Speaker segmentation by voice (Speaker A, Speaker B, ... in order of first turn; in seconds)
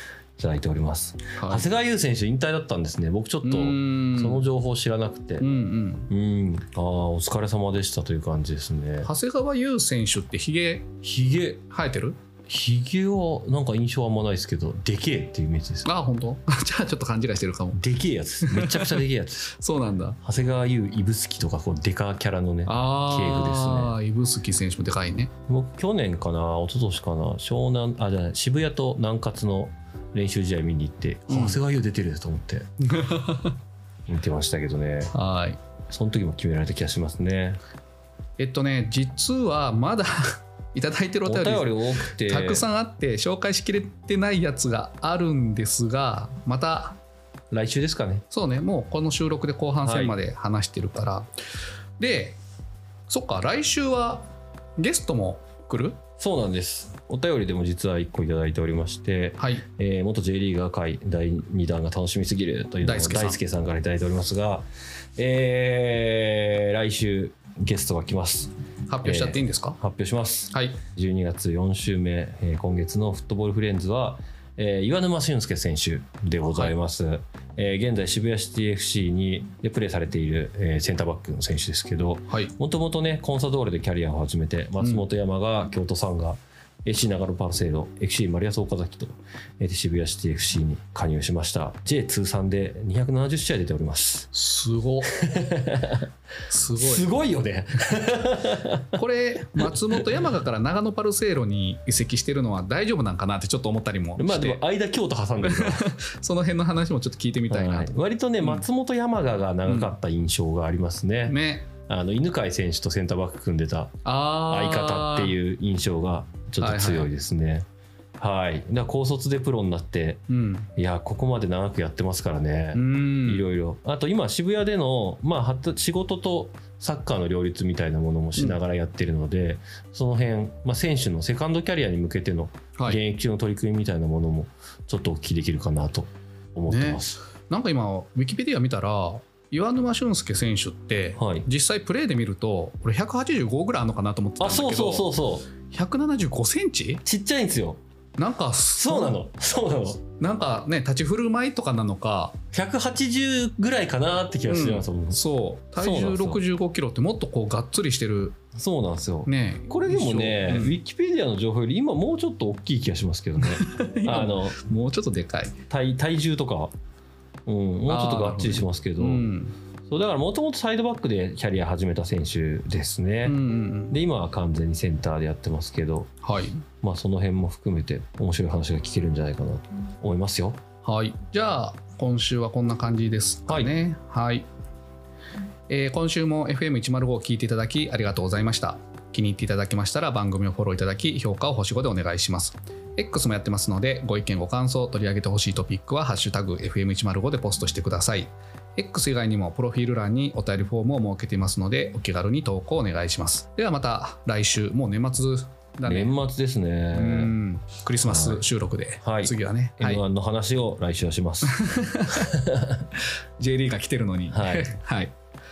Speaker A: 0.4-5.5, 6.1-9.1, 11.1-11.5, 12.5-15.9, 17.8-19.5, 20.2-24.0, 25.5-32.7, 34.1-35.1, 35.9-37.6, 41.2-42.6, 47.5-48.2, 49.8-50.2, 56.2-68.5, 69.0-94.3, 95.1-96.1, 96.8-99.0, 99.6-100.1, 104.2-105.9, 107.5-113.9, 114.5-117.7, 118.2-120.2, 120.8-137.2, 141.2-141.5, 144.4-145.5, 147.1-147.8, 148.8-150.0, 152.5-155.2, 155.8-156.4, 158.6-164.6, 165.7-166.7, 167.5-169.2, 169.9-173.4, 173.9-176.1, 176.8-180.6, 183.5-183.7, 205.9-207.3, 208.0-208.4, 209.0-211.6, 212.2-212.8, 214.3-214.8
Speaker B: 1.4-1.7, 3.4-4.5, 5.4-6.1, 9.0-12.2, 15.8-17.8, 18.4-20.2, 22.7-25.3, 31.3-31.6, 32.9-33.5, 35.1-35.6, 38.4-47.0, 48.3-51.3, 52.0-52.4, 53.1-54.3, 54.8-56.0, 59.4-59.6, 62.8-63.4, 68.9-69.8, 70.5-70.8, 94.3-95.1, 96.5-97.1, 98.9-104.6, 105.4-108.7, 109.7-110.0, 111.3-111.7, 114.0-115.3, 116.6-117.1, 120.3-120.7, 122.7-123.5, 136.7-145.1, 145.7-147.0, 148.2-149.2, 150.2-152.4, 154.5-158.4, 159.3-160.8, 163.4-165.6, 167.9-169.6, 173.2-174.0, 176.2-176.6, 180.8-184.5, 185.7-206.1, 206.9-210.0, 211.5-212.3, 213.4-215.1